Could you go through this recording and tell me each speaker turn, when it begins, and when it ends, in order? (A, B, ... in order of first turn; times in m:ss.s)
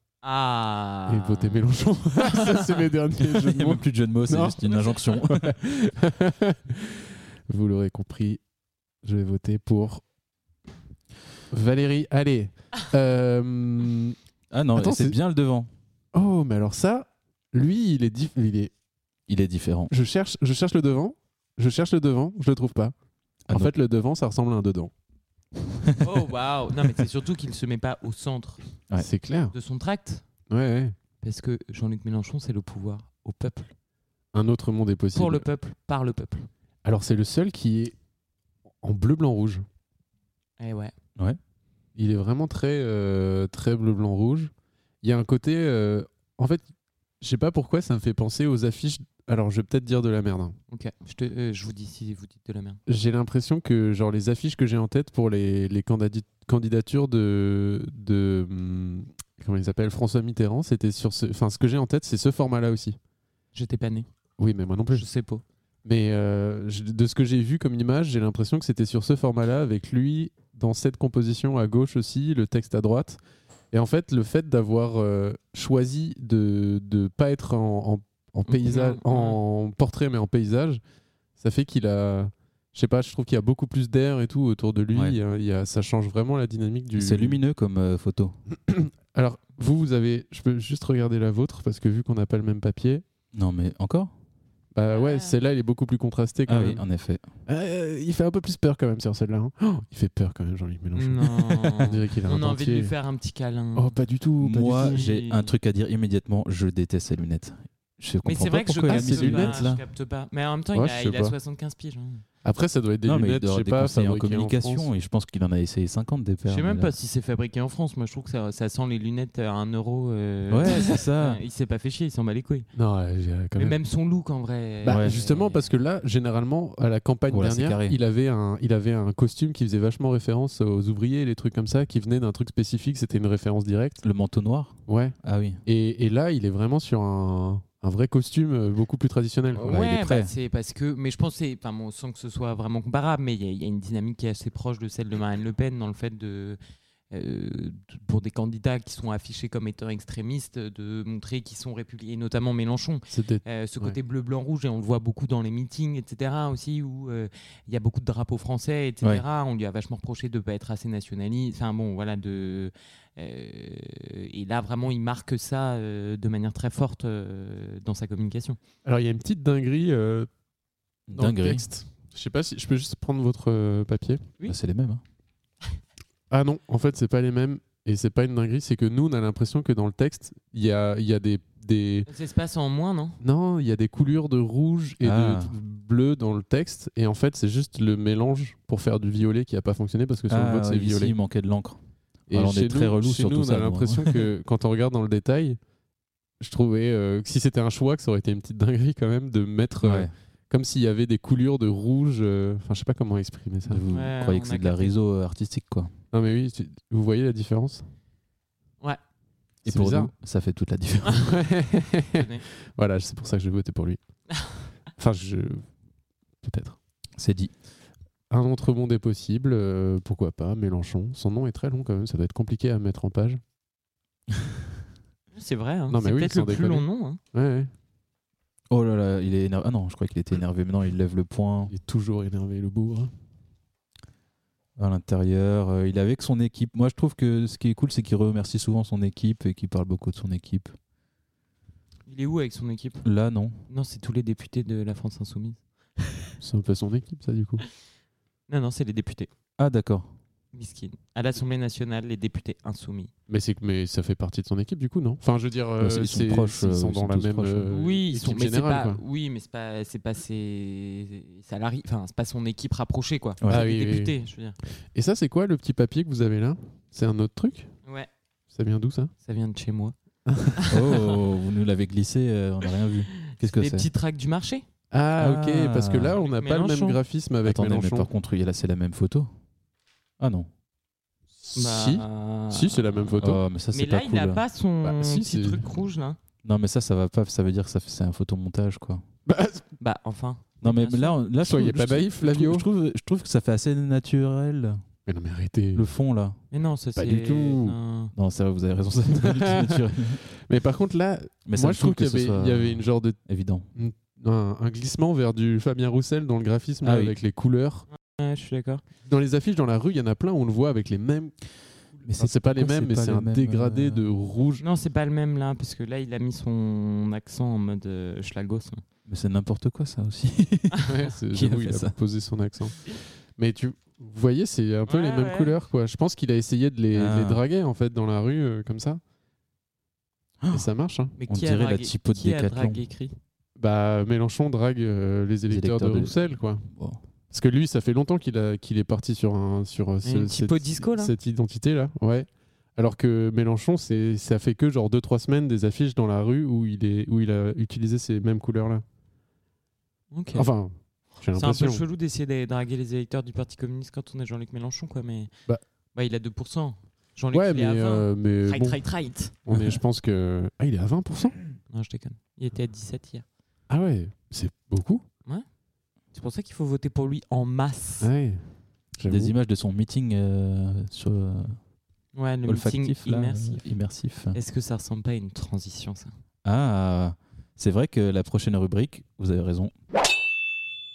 0:00.2-0:02.7 A
0:01.1-0:08.4 B
0:03.4-0:05.6 C
0:09.0-0:10.0 B
0:11.5-0:14.2 B
0:14.5-0:15.7 C
0:14.8-0:15.2 B
0:16.1-0:18.7 B
0:19.3-0:19.9 C
0:19.9-0:22.9 B
0:23.5-0:24.9 B
0:26.0-0:28.6 A
0:29.0-0:29.6 B
0:29.5-0:30.2 A
0:30.5-0:31.0 B
0:31.2-0:33.7 A
0:34.3-0:35.5 B
0:35.1-0:36.5 A
0:36.8-0:38.0 B
0:38.8-0:39.7 B
0:40.6-0:40.9 A
0:42.0-0:46.7 B
0:47.2-0:50.6 B
0:50.7-0:52.8 A
0:52.9-1:03.0 B
1:03.5-1:04.1 A
1:04.4-1:05.1 B
1:04.9-1:05.4 A
1:05.8-1:13.2 B
1:13.7-1:20.8 B
1:18.5-1:19.4 A
1:21.4-1:27.4 B
1:24.9-1:25.2 C
1:27.0-1:28.4 C
1:28.5-1:33.0 B
1:33.3-1:34.1 C
1:34.7-1:36.8 B
1:34.9-1:35.4 A
1:36.5-1:37.2 C
1:37.5-1:42.9 B
1:41.0-1:44.0 A
1:43.8-1:45.2 B
1:44.4-1:49.8 C
1:44.8-1:45.5 A
1:48.2-1:52.2 A
1:48.9-1:49.6 B
1:50.7-1:51.4 B
1:52.4-1:54.9 B
1:53.0-1:56.9 C
1:56.4-2:02.7 A
2:00.5-2:01.4 C
2:02.8-2:03.8 B
2:03.6-2:05.6 A
2:04.8-2:14.0 B
2:04.9-2:05.2 C
2:07.3-2:08.0 C
2:14.0-2:15.6 C
2:14.9-2:19.8 B
2:19.5-2:26.6 A
2:19.7-2:20.3 C
2:27.1-2:48.6 A
2:33.1-2:34.0 B
2:48.8-2:50.3 B
2:51.1-2:51.6 C
2:51.2-2:54.3 B
2:54.5-2:55.0 C
2:56.3-3:02.1 B
3:02.1-3:03.2 A
3:03.2-3:11.2 B
3:05.0-3:05.5 C
3:10.3-3:11.8 C
3:12.3-3:14.2 C
3:12.3-3:15.6 B
3:16.4-3:23.8 B
3:19.8-3:20.1 C
3:23.7-3:25.9 C
3:23.9-3:24.9 A
3:26.1-3:27.9 B
3:29.6-3:30.1 B
3:29.7-3:31.3 C
3:31.2-3:34.0 B
3:32.2-3:32.4 A
3:35.0-3:35.7 B
3:36.4-3:36.8 B
3:37.2-3:37.5 C
3:38.3-3:43.4 B
3:45.3-3:47.2 A
3:45.9-3:47.7 B
3:48.7-3:51.7 C
3:51.7-3:53.1 B
3:54.8-4:00.8 C
4:02.1-4:03.1 A
4:03.0-4:03.6 C
4:03.7-4:06.2 A
4:06.4-4:07.6 B
4:08.5-4:09.3 A
4:09.6-4:10.1 C
4:10.5-4:13.1 A
4:13.3-4:19.0 B
4:15.8-4:17.7 C
4:17.7-4:24.6 A
4:23.4-4:23.7 C
4:23.5-4:24.1 B
4:24.9-4:27.7 B
4:28.5-4:29.1 B
4:29.2-4:30.0 A
4:30.3-4:30.6 B
4:30.6-4:31.0 A
4:30.7-4:33.9 C
4:33.3-4:34.6 A
4:34.9-4:38.1 B
4:35.2-4:36.2 C
4:36.2-4:37.0 A
4:37.4-4:39.3 C
4:40.2-4:40.5 C
4:41.4-4:43.4 B
4:41.6-4:46.2 A
4:43.2-4:44.4 C
4:44.8-4:45.6 B
4:46.4-4:49.0 C
4:49.3-4:49.7 B
4:49.8-4:51.2 A
4:50.6-4:54.8 C
4:51.4-4:52.7 B
4:55.1-4:55.9 B
4:55.7-4:56.4 C
4:56.5-4:58.1 A
4:57.0-4:57.8 B
4:58.2-5:00.2 C
4:59.2-4:59.8 B
5:00.3-5:03.2 B
5:01.5-5:03.7 C
5:03.8-5:07.9 B
5:06.8-5:07.2 C
5:08.1-5:08.8 A
5:09.0-5:11.4 B
5:12.0-5:14.0 C
5:12.2-5:14.6 B
5:14.6-5:18.8 A
5:19.1-5:22.0 C
5:20.9-5:29.0 B
5:24.9-5:25.5 A
5:26.9-5:27.4 C
5:30.5-5:31.2 B
5:31.2-5:33.2 A
5:31.3-5:32.8 C
5:33.6-5:36.7 B
5:35.5-5:37.0 C
5:37.3-5:48.8 B
5:40.0-5:41.2 A
5:50.1-5:50.5 A
5:50.3-5:51.8 B
5:51.3-5:55.3 A
5:55.9-5:59.4 A
5:57.3-5:58.8 B
5:59.4-6:01.4 B
6:01.7-6:03.3 A
6:03.7-6:05.0 B
6:06.1-6:08.1 A
6:08.0-6:09.3 B
6:09.0-6:11.6 C
6:12.2-6:13.7 A
6:12.5-6:14.4 C
6:14.3-6:16.2 A
6:16.4-6:19.7 C